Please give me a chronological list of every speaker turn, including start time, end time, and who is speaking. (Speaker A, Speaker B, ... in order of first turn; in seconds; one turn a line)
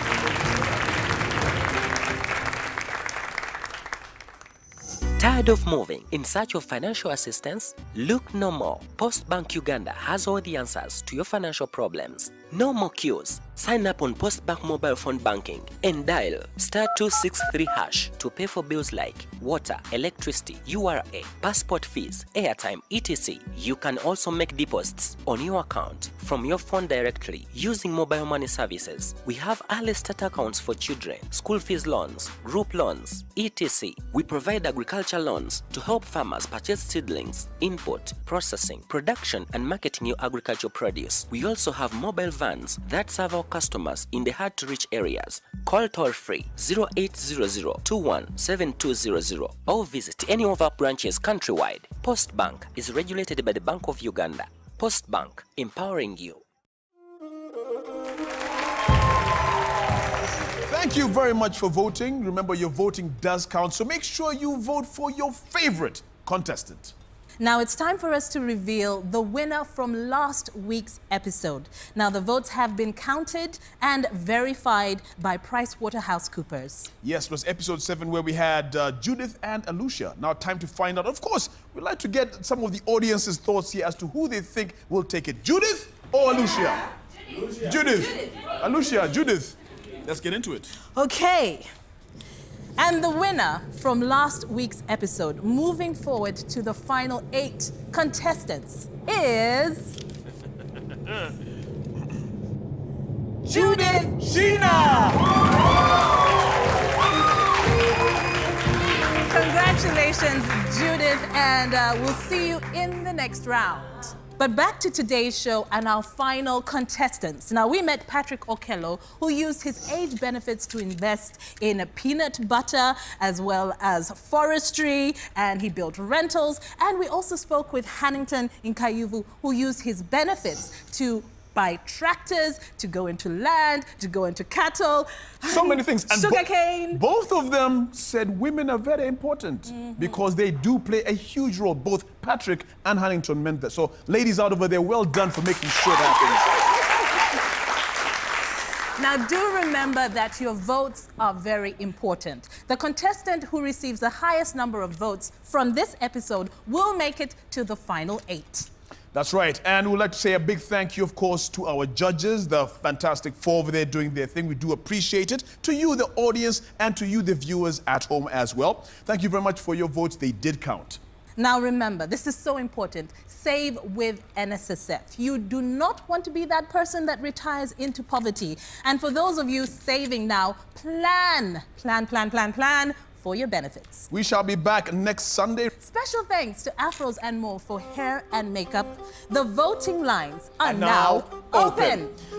Speaker A: 5.2-56.4
Speaker B: 60.7-66.9
Speaker C: 67.4-76.9
Speaker B: 77.0-86.9
Speaker B: 87.5-90.7
Speaker C: 90.9-91.7
Speaker C: 92.8-100.0
Speaker B: 103.5-105.2
Speaker C: 103.5-105.0
Speaker C: 109.3-137.0
Speaker B: 135.5-146.5
Speaker C: 139.7-140.2
Speaker C: 149.0-158.7
Speaker B: 159.1-171.0
Speaker C: 171.4-184.1
Speaker B: 184.1-185.7
Speaker C: 185.8-192.1
Speaker B: 190.6-192.0